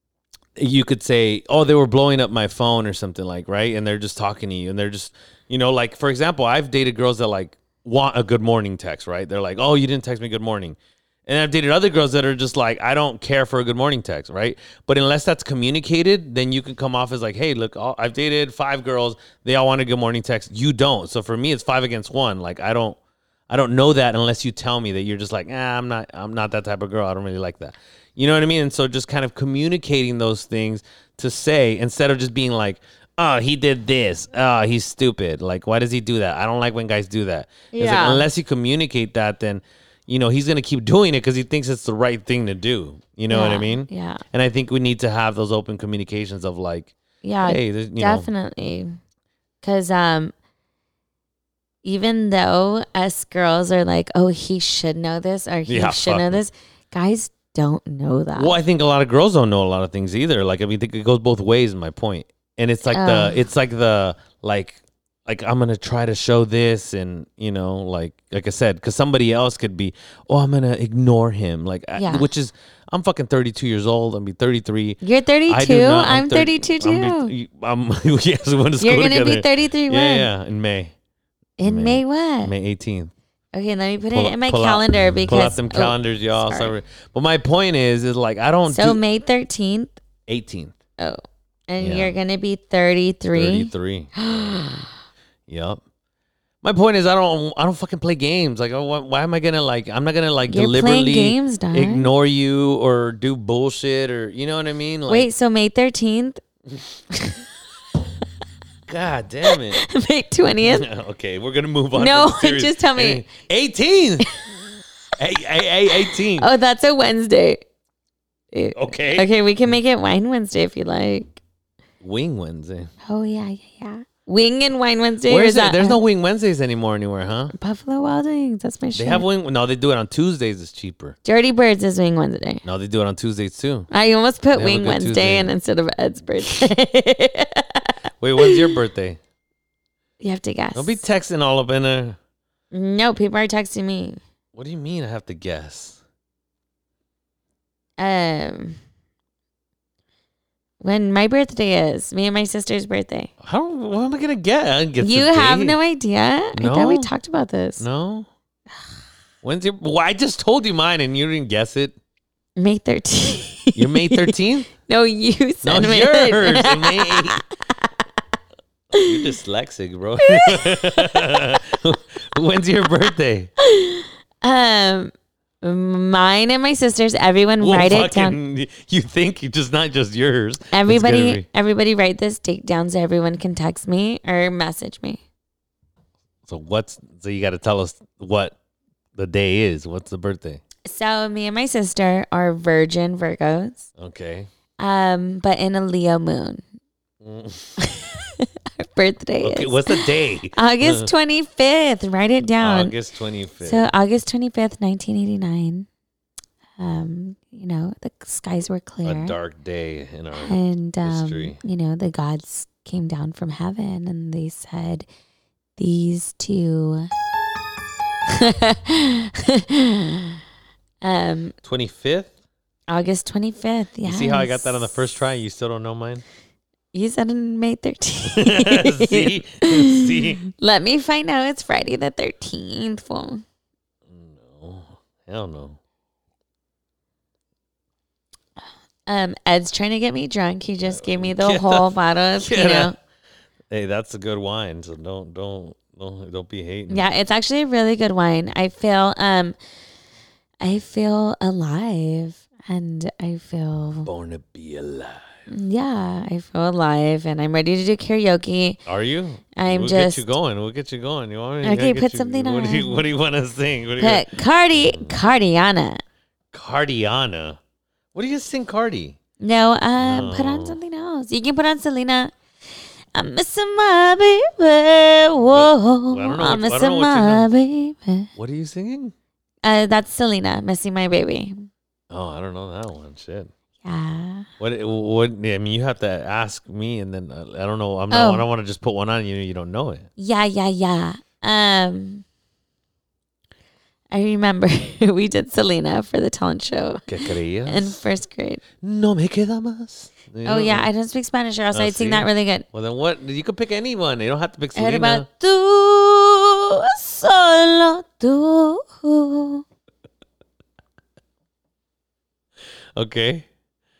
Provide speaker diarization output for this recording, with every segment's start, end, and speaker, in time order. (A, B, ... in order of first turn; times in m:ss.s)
0:00.6-0:23.0 A
0:23.5-0:48.3 A
0:37.7-0:38.2 B
0:43.3-0:44.2 B
0:47.2-0:49.0 B
0:49.6-0:50.3 B
0:51.8-0:58.6 B
0:55.7-0:56.4 A
0:58.4-1:20.9 A
1:02.9-1:03.4 B
1:12.0-1:12.3 B
1:15.0-1:17.3 B
1:18.8-1:20.3 B
1:21.6-1:22.5 B
1:21.6-1:23.1 A
1:23.5-1:26.7 B
1:24.1-1:29.0 A
1:28.7-1:30.0 B
1:30.3-1:30.8 A
1:31.0-1:35.0 B
1:31.8-1:32.2 A
1:33.3-1:34.2 A
1:35.5-1:35.8 A
1:36.6-1:45.3 A
1:40.5-1:42.1 B
1:45.1-1:46.4 B
1:47.1-1:47.4 B
1:48.9-1:49.8 A
1:49.5-1:50.9 B
1:50.6-1:54.3 A
1:51.9-1:53.3 B
1:55.2-1:56.5 A
1:56.1-1:57.6 B
1:58.5-2:01.4 B
1:58.8-1:59.3 A
2:02.0-2:02.9 A
2:03.0-2:06.0 B
2:05.3-2:07.5 A
2:07.5-2:09.2 B
2:09.0-2:11.2 A
2:11.2-2:12.6 B
2:12.6-2:13.9 A
2:13.9-2:18.7 B
2:14.5-2:15.5 A
2:18.2-2:19.2 A
2:20.2-2:21.0 B
2:20.8-2:22.2 A
2:22.7-2:24.2 B
2:24.5-2:26.0 A
2:28.0-2:28.8 B
2:30.8-2:33.3 B
2:33.4-2:35.8 A
2:35.0-2:37.8 B
2:36.6-2:37.1 A
2:37.8-2:38.3 A
2:39.4-2:42.0 A
2:42.6-2:47.9 B
2:43.8-2:44.7 A
2:45.6-2:47.4 A
2:48.9-2:49.2 B
2:49.0-2:53.5 A
2:50.2-2:51.4 B
2:53.6-2:58.4 B
2:57.6-3:01.5 A
3:00.7-3:05.2 B
3:06.5-3:08.6 A
3:09.2-3:10.6 A
3:10.8-3:13.9 B
3:14.0-3:14.5 A
3:14.8-3:16.6 B
3:17.2-3:17.8 A
3:17.8-3:22.9 B
3:19.4-3:21.1 A
3:22.6-3:23.9 A
3:23.6-3:25.9 B
3:26.8-3:29.4 B
3:29.0-3:31.6 A
3:30.3-3:35.1 B
3:35.8-3:37.1 B
3:38.3-3:40.4 B
3:41.0-3:41.6 B
3:41.6-3:42.3 A
3:42.9-3:45.0 B
3:44.0-3:46.2 A
3:46.9-3:53.4 B
3:48.3-3:50.4 A
3:54.1-3:55.8 A
3:59.1-4:03.0 B
4:00.8-4:02.9 A
4:03.7-4:07.1 A
4:06.9-4:09.6 B
4:10.6-4:14.1 B
4:14.0-4:15.3 A
4:15.5-4:18.8 B
4:18.9-4:25.2 A
4:19.6-4:20.2 B
4:21.6-4:23.0 B
4:24.0-4:26.0 B
4:26.5-4:27.6 A
4:28.1-4:29.2 A
4:29.4-4:32.3 B
4:30.0-4:30.8 A
4:33.1-4:38.3 B
4:35.5-4:37.5 A
4:38.4-4:39.1 A
4:39.6-4:41.7 B
4:42.1-4:43.5 A
4:43.8-4:44.5 B
4:44.6-4:50.1 A
4:48.1-4:48.4 B
4:50.2-4:52.2 B
4:54.1-4:58.6 B
4:57.1-4:58.0 A
4:58.8-5:00.9 A
5:00.4-5:02.7 B
5:01.7-5:05.3 A
5:04.8-5:09.6 B
5:13.0-5:13.5 A